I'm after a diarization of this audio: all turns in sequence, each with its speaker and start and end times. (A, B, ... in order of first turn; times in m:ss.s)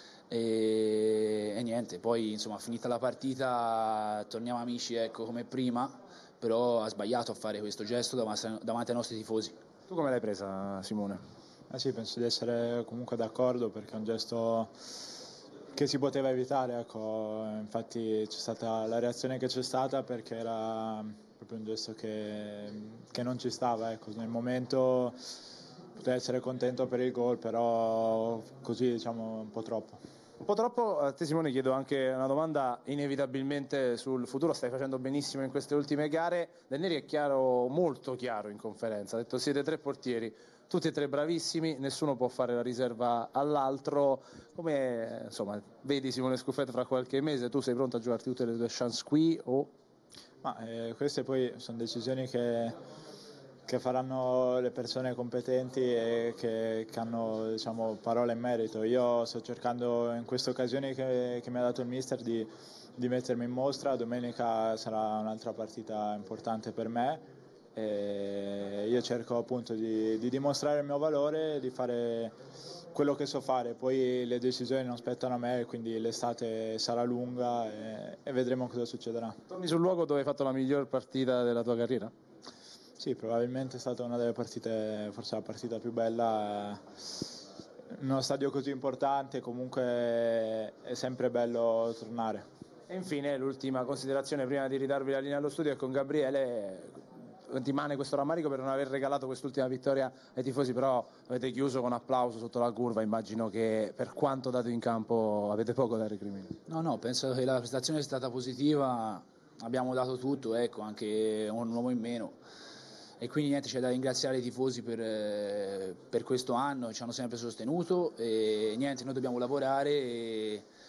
0:00.3-0:09.5 A
0:09.9-0:11.2 B
0:11.7-0:14.7 C
0:15.7-0:25.2 C
0:26.0-0:30.0 C
0:30.4-0:49.7 B
0:50.4-0:52.8 C
0:53.7-1:07.2 C
1:07.7-1:12.3 C
1:12.9-1:19.4 C
1:19.5-1:22.1 B
1:23.0-1:26.8 C
1:27.9-1:32.4 C
1:32.9-1:46.6 B
1:46.7-1:52.4 A
1:53.2-2:00.6 A